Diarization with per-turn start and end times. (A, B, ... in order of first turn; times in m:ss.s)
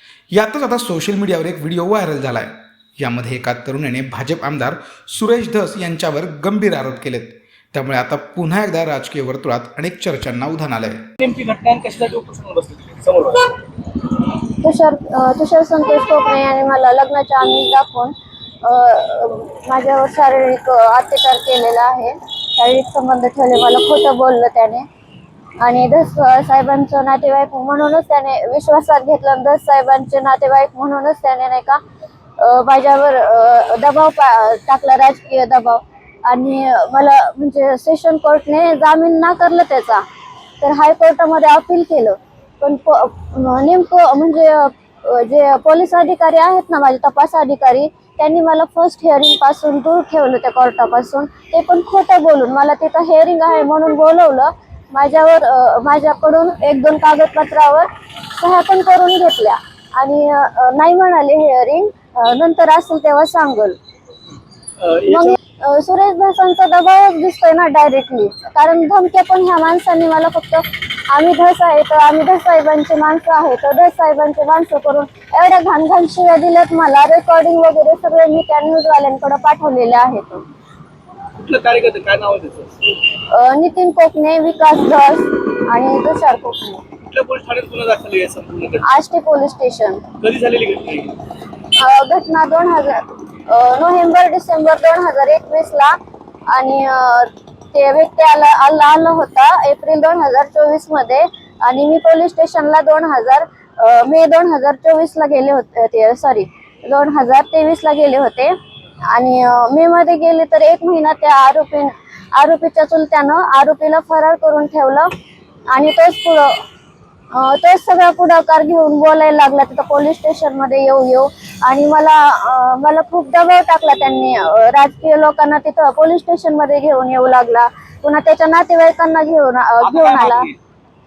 0:00.3-0:11.1 A
0:11.2-0:13.6 B
0:14.5-0:24.9 C
0:25.6-0:31.8 C
0:32.4-0:40.0 C
0:40.6-1:03.8 C
1:04.8-1:05.4 B
1:05.1-1:20.5 C
1:21.4-1:22.8 B
1:23.3-1:26.8 C
1:27.0-1:28.9 B
1:28.8-1:30.1 C
1:30.2-1:31.2 B
1:31.8-1:36.0 C
1:36.5-1:48.5 C
1:49.1-1:55.1 C
1:55.7-1:56.6 C
1:57.3-2:10.5 C
2:09.9-2:10.5 B